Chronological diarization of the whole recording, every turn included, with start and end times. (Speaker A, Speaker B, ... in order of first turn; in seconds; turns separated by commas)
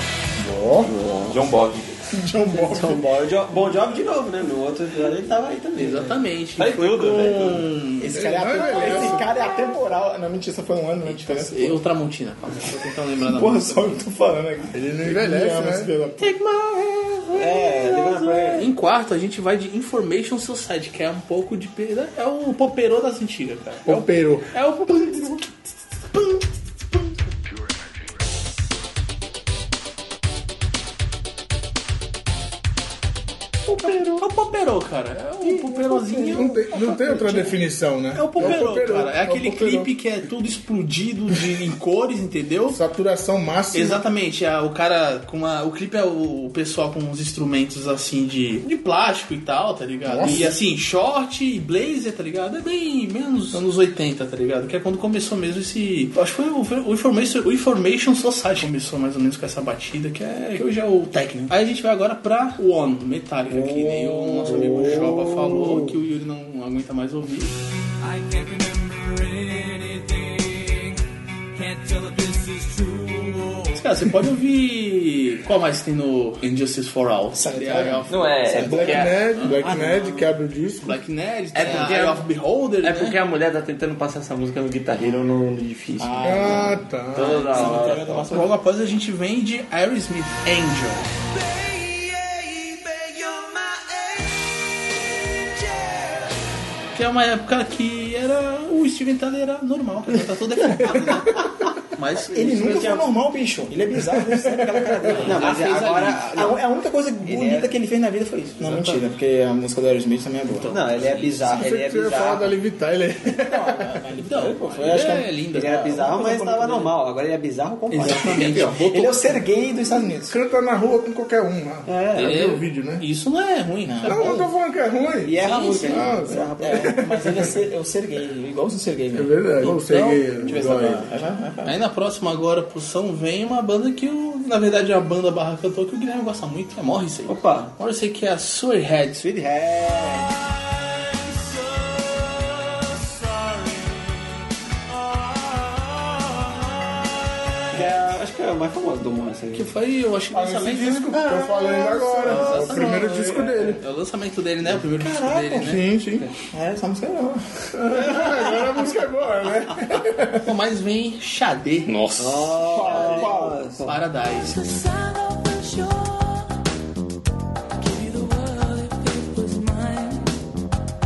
Speaker A: 0.4-0.9, Speaker B: 0.9-1.9, Speaker A: 2.1-2.9, Speaker C: 2.5-6.2, Speaker D: 5.8-8.2, Speaker B: 6.6-7.7, Speaker E: 8.0-11.8, Speaker A: 8.1-9.3, Speaker D: 8.7-9.2, Speaker D: 11.0-14.0, Speaker E: 13.2-16.3, Speaker A: 14.7-16.0, Speaker D: 16.2-25.5, Speaker C: 17.3-18.7, Speaker A: 23.9-24.5, Speaker E: 33.7-34.3, Speaker D: 33.8-37.5, Speaker E: 35.4-37.4, Speaker A: 36.3-39.9, Speaker D: 38.1-42.8, Speaker A: 42.7-44.0, Speaker D: 43.7-67.5, Speaker A: 50.0-50.6, Speaker C: 63.5-65.9, Speaker F: 68.0-71.0, Speaker F: 71.5-73.7, Speaker D: 73.7-78.3, Speaker E: 77.3-79.1, Speaker B: 78.1-79.2, Speaker A: 78.6-81.0, Speaker D: 80.8-83.2, Speaker B: 81.5-82.2, Speaker B: 82.8-88.3, Speaker E: 86.0-86.8, Speaker A: 86.2-87.6, Speaker E: 87.4-88.5, Speaker D: 88.3-91.1, Speaker F: 91.2-96.3, Speaker D: 96.9-103.0, Speaker E: 102.3-105.6, Speaker C: 102.6-103.0, Speaker C: 104.5-106.6, Speaker D: 105.1-106.3, Speaker E: 106.3-111.0, Speaker C: 107.2-107.7, Speaker D: 108.7-109.0, Speaker D: 110.5-111.4, Speaker C: 110.7-112.5, Speaker A: 111.5-113.9, Speaker E: 113.4-116.9, Speaker D: 114.2-116.1, Speaker C: 115.5-118.7, Speaker D: 117.9-119.4, Speaker E: 118.0-120.3, Speaker A: 120.2-123.0, Speaker C: 121.8-122.4, Speaker D: 122.2-124.5, Speaker E: 123.8-124.4, Speaker A: 124.0-127.5, Speaker C: 125.2-127.5, Speaker D: 125.4-126.0, Speaker E: 126.6-129.8, Speaker A: 129.1-131.1, Speaker D: 129.6-131.1, Speaker E: 130.4-131.8, Speaker D: 131.6-139.2, Speaker C: 137.2-137.7, Speaker C: 139.2-140.3, Speaker F: 140.1-144.3, Speaker F: 144.9-146.9, Speaker C: 147.7-149.7, Speaker D: 149.5-151.2, Speaker A: 150.3-153.8, Speaker E: 151.1-153.2, Speaker D: 152.2-155.8, Speaker E: 155.0-155.8, Speaker A: 155.6-156.3, Speaker E: 156.5-157.4, Speaker A: 157.7-160.5, Speaker D: 160.4-161.9, Speaker B: 161.8-162.9, Speaker C: 162.2-163.9, Speaker E: 162.7-163.6, Speaker D: 162.8-163.2, Speaker A: 163.0-163.2, Speaker D: 163.8-164.6, Speaker F: 164.4-166.5, Speaker F: 167.8-170.4